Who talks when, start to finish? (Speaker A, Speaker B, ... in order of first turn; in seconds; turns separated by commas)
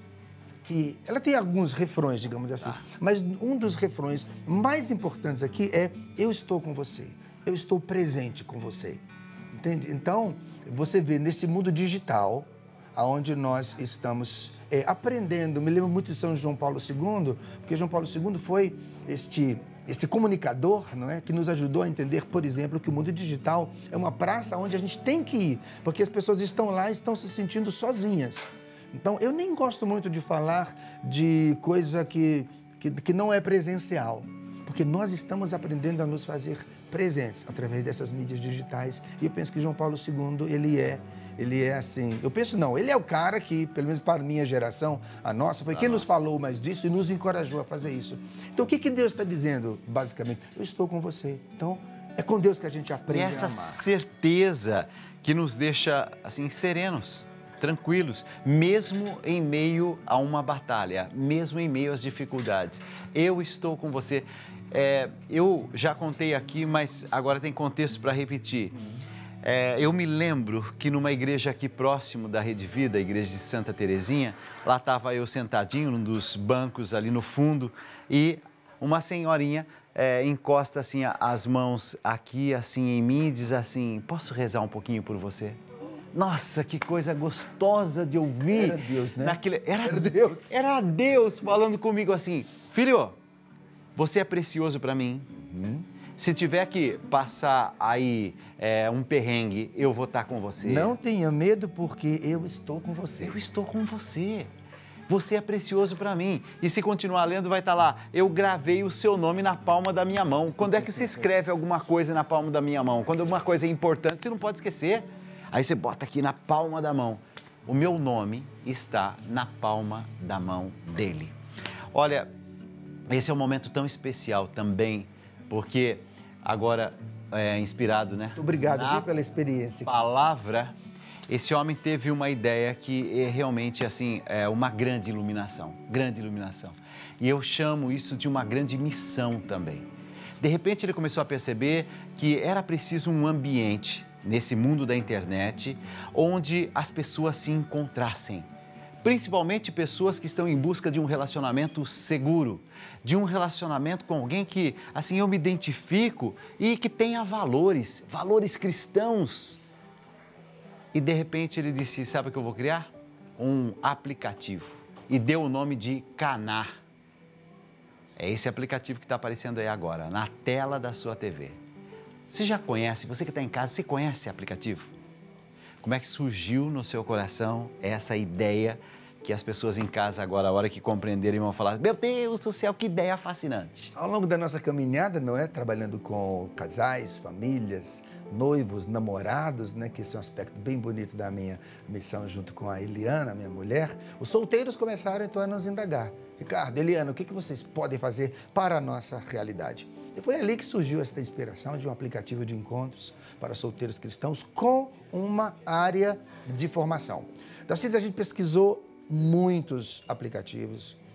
Speaker A: 0.6-53.9, Speaker B: 45.7-46.2, Speaker B: 53.1-68.8, Speaker B: 69.4-85.6, Speaker B: 86.1-93.2, Speaker A: 88.5-90.6, Speaker B: 94.0-95.3, Speaker A: 95.3-95.8, Speaker B: 96.2-101.0, Speaker A: 100.6-103.4, Speaker B: 103.2-104.5, Speaker B: 105.1-121.3, Speaker A: 110.6-111.3, Speaker B: 121.9-122.3, Speaker B: 123.1-129.1, Speaker A: 128.3-129.9, Speaker B: 129.8-130.8, Speaker B: 131.3-139.9, Speaker B: 140.4-148.5, Speaker B: 149.0-159.6, Speaker B: 160.9-166.7, Speaker B: 168.2-171.6, Speaker B: 172.3-174.9, Speaker B: 175.8-183.9, Speaker A: 183.9-211.0